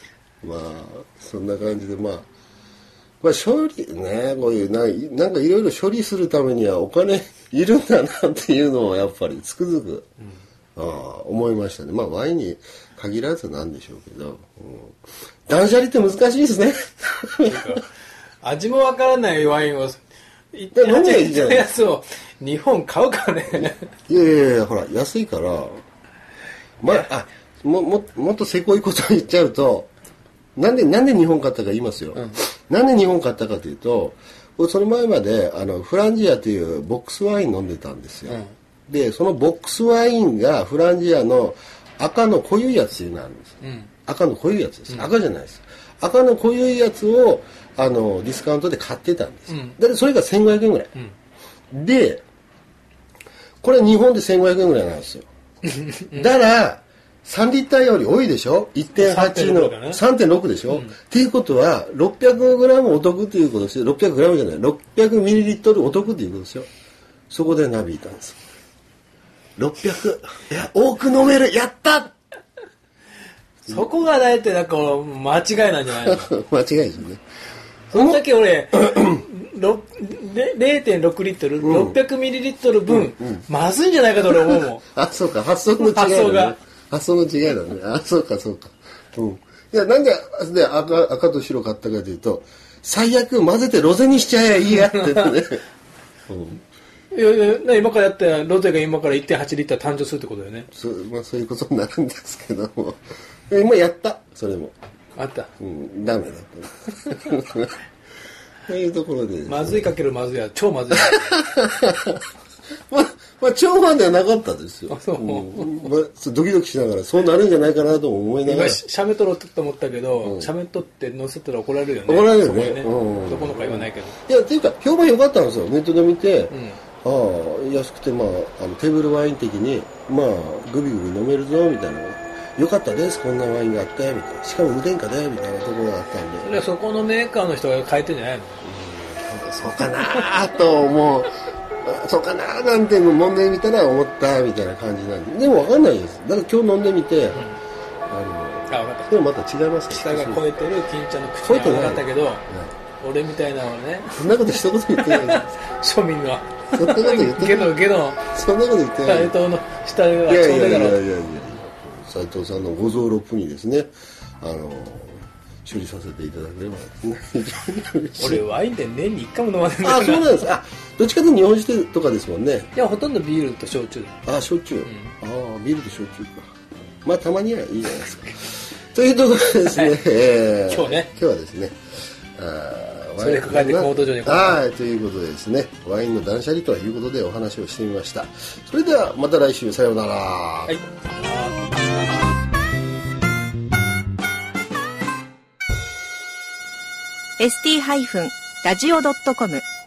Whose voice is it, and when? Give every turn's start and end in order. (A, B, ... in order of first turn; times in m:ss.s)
0:00.4-0:02.3 A
0:03.2-0:10.1 A
0:10.8-0:15.0 A
0:15.5-0:17.8 A
0:17.4-0:17.8 B
0:18.4-0:20.0 B
0:20.5-0:23.9 B
0:20.7-0:21.7 A
0:23.5-0:25.8 A
0:26.8-0:29.9 A
0:30.6-0:50.9 A
0:43.6-0:43.9 B
0:49.5-0:49.8 B
0:51.7-0:52.2 A
0:53.6-0:55.3 A
0:55.7-0:56.3 B
0:56.1-1:06.7 A
0:58.9-1:00.0 B
1:07.3-1:08.4 A
1:09.6-1:12.2 A
1:13.7-1:16.3 B
1:16.0-1:17.2 A
1:17.9-1:24.8 B
1:17.9-1:18.2 A
1:18.7-1:19.2 A
1:21.6-1:22.0 A
1:22.9-1:23.5 A
1:24.4-1:35.6 A
1:25.8-1:26.6 B
1:34.7-1:35.4 B
1:36.3-1:36.6 A
1:37.1-1:40.7 B
1:40.7-1:44.7 A
1:45.2-1:45.5 B
1:45.6-1:47.8 A
1:48.7-1:49.9 A
1:49.5-1:51.4 B
1:51.0-1:52.2 A
1:52.9-1:58.8 A
1:54.9-1:55.9 B
1:58.4-2:04.2 B
2:00.2-2:00.5 A
2:02.1-2:16.6 A
2:06.5-2:06.8 B
2:16.4-2:18.6 B
2:18.6-2:27.5 A
2:28.1-2:30.4 A
2:28.7-2:29.1 B
2:29.9-2:32.4 B
2:31.4-2:32.7 A
2:33.0-2:38.2 B
2:34.1-2:35.5 A
2:36.7-2:39.3 A
2:39.0-2:41.0 B
2:40.2-2:48.4 A
2:48.2-2:50.4 B
2:49.8-2:52.7 A
2:52.7-2:54.2 B
2:54.2-3:01.8 A
2:54.8-2:55.1 B
2:59.7-3:00.0 B
3:00.7-3:01.1 B
3:02.4-3:10.8 A
3:03.2-3:04.6 B
3:10.7-3:12.3 B
3:17.4-3:19.6 C